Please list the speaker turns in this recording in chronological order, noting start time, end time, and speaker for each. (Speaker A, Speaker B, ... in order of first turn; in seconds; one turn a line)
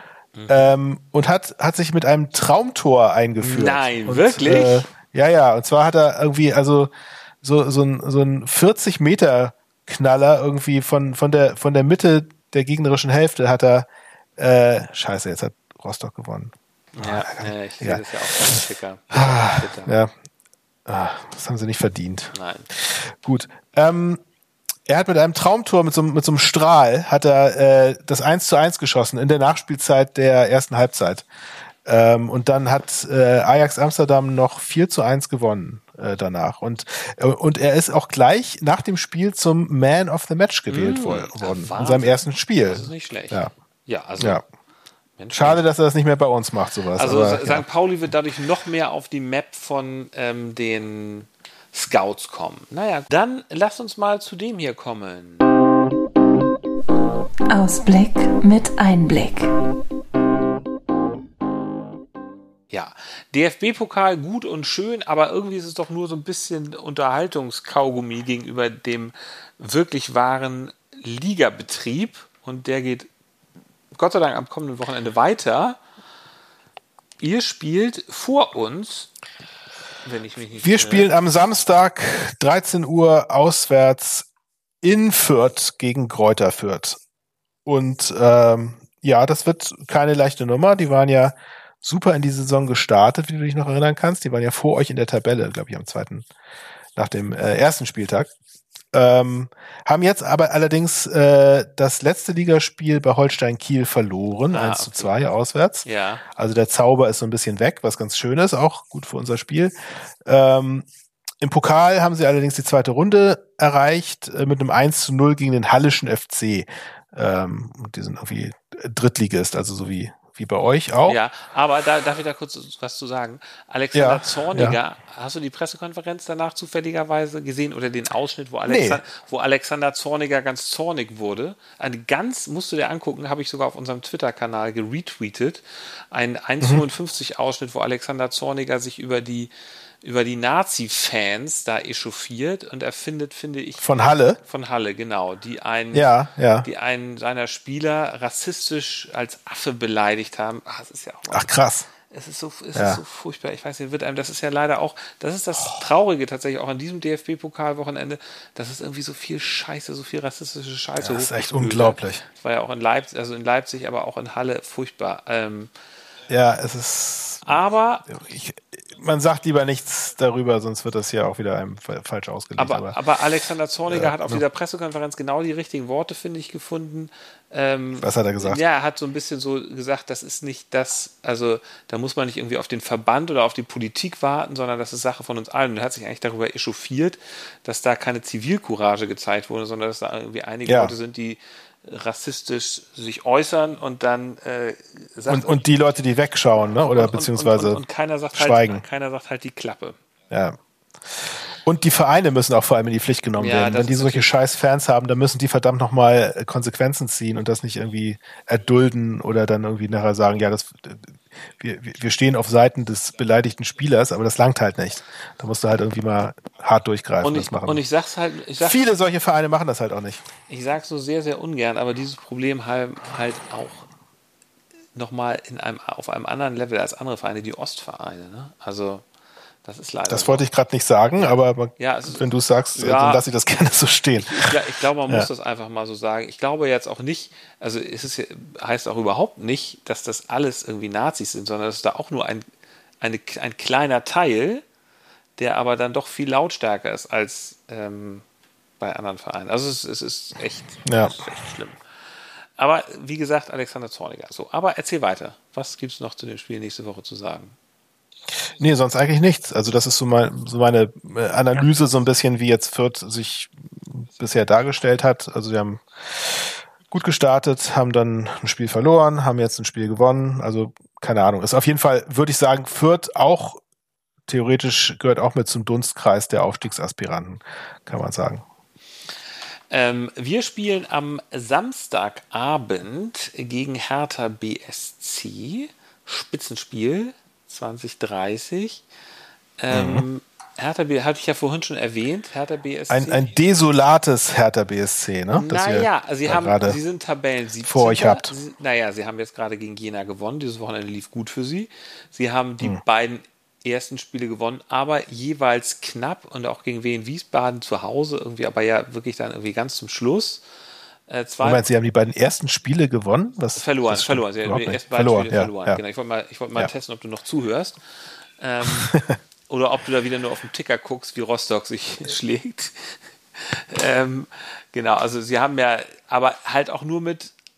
Speaker A: 0.3-0.7
Speaker B: 0.5-6.9
Speaker A: 3.4-4.9
Speaker B: 7.4-18.6
Speaker A: 16.9-20.0
Speaker B: 19.1-20.1
Speaker B: 20.9-24.2
Speaker A: 22.3-22.7
Speaker B: 24.9-31.2
Speaker B: 31.8-43.5
Speaker A: 40.7-44.4
Speaker A: 45.2-45.6
Speaker B: 45.3-47.6
Speaker A: 46.9-55.4
Speaker C: 57.5-59.5
Speaker A: 62.7-73.1
Speaker A: 73.9-75.8
Speaker A: 77.2-79.1
Speaker A: 80.0-81.1
Speaker B: 80.6-84.3
Speaker B: 84.8-87.0
Speaker B: 87.6-96.2
Speaker B: 97.0-98.3
Speaker B: 98.9-110.9
Speaker A: 104.5-105.1
Speaker A: 105.8-106.2
Speaker B: 111.4-121.2
Speaker A: 121.1-139.5
Speaker B: 123.9-124.8
Speaker B: 128.7-129.0
Speaker A: 140.0-165.7
Speaker B: 143.8-144.4
Speaker B: 145.9-146.7
Speaker B: 151.3-151.9
Speaker B: 152.7-153.0
Speaker B: 161.0-162.2
Speaker B: 166.3-167.5
Speaker A: 167.4-168.2
Speaker B: 168.1-172.9
Speaker A: 172.6-195.7
Speaker B: 173.9-174.4
Speaker B: 178.0-178.6
Speaker B: 190.7-190.9
Speaker B: 195.3-197.8
Speaker A: 196.7-200.0
Speaker B: 198.3-198.8
Speaker B: 200.3-200.6
Speaker B: 201.2-217.8
Speaker A: 203.4-204.3
Speaker A: 217.2-218.8
Speaker B: 218.6-220.2
Speaker A: 220.5-223.8
Speaker A: 224.9-229.0
Speaker A: 229.6-230.4
Speaker B: 230.1-235.3
Speaker A: 231.2-233.2
Speaker A: 234.2-242.4
Speaker A: 243.0-244.6
Speaker A: 245.4-248.2
Speaker A: 248.8-251.8
Speaker B: 250.8-251.2
Speaker A: 252.6-257.5
Speaker B: 258.6-273.6
Speaker B: 274.3-278.4
Speaker A: 279.7-288.8
Speaker A: 289.6-293.3
Speaker B: 289.7-290.0
Speaker B: 292.9-296.8
Speaker A: 295.4-310.4
Speaker B: 297.6-298.3
Speaker A: 311.1-311.6
Speaker B: 311.4-315.8
Speaker A: 313.6-317.8
Speaker A: 318.4-327.3
Speaker B: 318.8-319.1